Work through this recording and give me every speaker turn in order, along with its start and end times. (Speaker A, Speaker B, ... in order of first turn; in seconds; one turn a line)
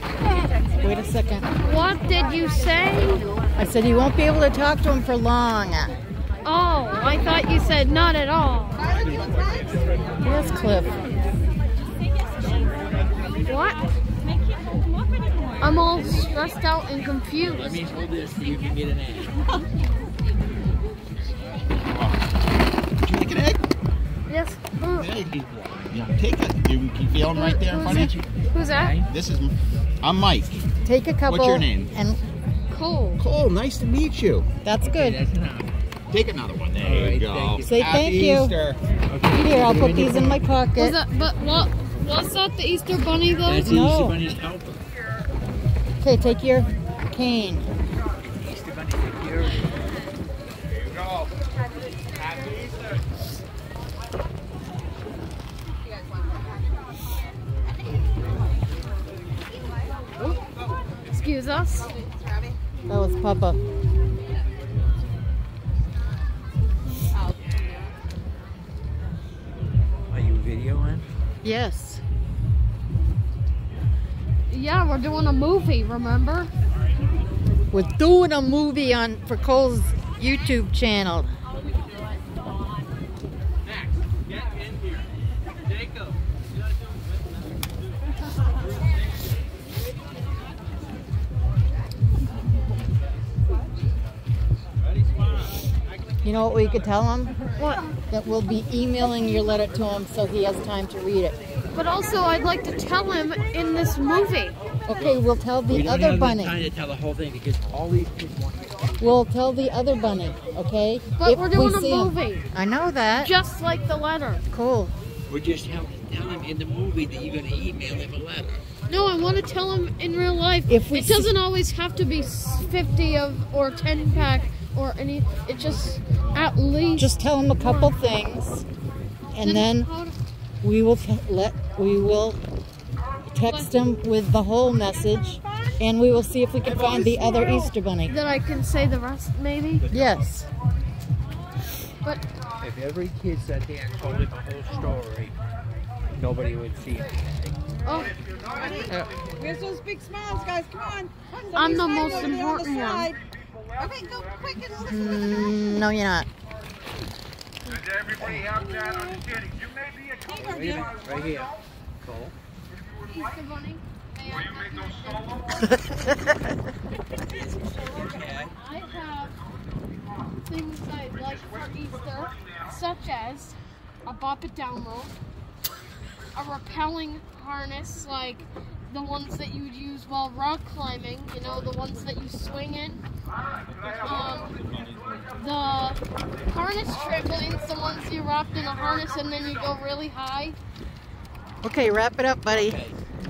Speaker A: 0.4-0.7
Speaker B: 0.8-1.5
Speaker C: 1.6-3.3
Speaker B: 3.5-6.0
Speaker C: 6.4-8.8
Speaker D: 8.9-9.6
Speaker A: 9.0-9.7
Speaker B: 10.2-10.9
Speaker C: 13.4-13.8
Speaker C: 15.6-17.8
Speaker D: 17.6-19.4
Speaker E: 21.8-22.3
Speaker E: 23.0-23.6
Speaker C: 24.3-25.1
Speaker E: 24.9-25.3
Speaker D: 25.1-25.9
Speaker E: 25.9-28.2
Speaker C: 27.3-29.0
Speaker D: 28.7-29.1
Speaker E: 29.1-30.7
Speaker B: 30.8-32.2
Speaker E: 31.2-32.0
Speaker C: 32.7-33.2
Speaker E: 33.2-34.5
Speaker B: 34.6-35.2
Speaker D: 34.8-35.7
Speaker E: 36.1-38.8
Speaker D: 36.8-38.0
Speaker B: 37.6-38.5
Speaker D: 39.1-40.4
Speaker B: 39.3-41.0
Speaker C: 40.8-43.7
Speaker D: 43.5-44.8
Speaker B: 43.6-44.2
Speaker B: 46.0-47.6
Speaker D: 48.3-49.9
Speaker C: 61.0-61.9
Speaker B: 62.9-63.6
Speaker D: 70.1-71.0
Speaker B: 71.4-72.0
Speaker C: 74.5-76.5
Speaker B: 77.7-81.3
Speaker B: 96.2-97.3
Speaker C: 97.6-97.8
Speaker B: 98.1-101.4
Speaker C: 101.7-104.6
Speaker B: 104.9-106.6
Speaker D: 104.9-109.2
Speaker B: 109.0-113.3
Speaker C: 111.2-112.5
Speaker C: 113.1-114.4
Speaker B: 114.5-114.9
Speaker D: 115.3-118.6
Speaker C: 118.9-128.0
Speaker B: 120.7-121.3
Speaker B: 127.0-128.6
Speaker B: 129.3-129.9
Speaker C: 129.4-130.2
Speaker B: 130.6-132.4
Speaker B: 133.3-138.1
Speaker C: 133.4-133.7
Speaker E: 136.9-137.6
Speaker D: 136.9-137.4
Speaker C: 138.1-139.8
Speaker B: 139.9-140.5
Speaker D: 142.6-145.4
Speaker D: 146.1-147.6
Speaker C: 147.8-148.2
Speaker F: 148.3-149.1
Speaker A: 148.5-153.2
Speaker B: 148.9-149.1
Speaker C: 151.5-153.1
Speaker A: 153.8-155.7
Speaker B: 154.8-156.3
Speaker F: 157.7-161.5
Speaker A: 160.3-160.9
Speaker D: 160.3-162.3
Speaker C: 163.1-166.3
Speaker F: 164.6-165.4
Speaker D: 167.6-168.6
Speaker C: 168.6-169.3
Speaker C: 170.4-175.1
Speaker C: 176.3-183.0
Speaker C: 184.0-184.5
Speaker C: 185.3-190.6
Speaker B: 191.6-192.8
Speaker D: 192.5-192.9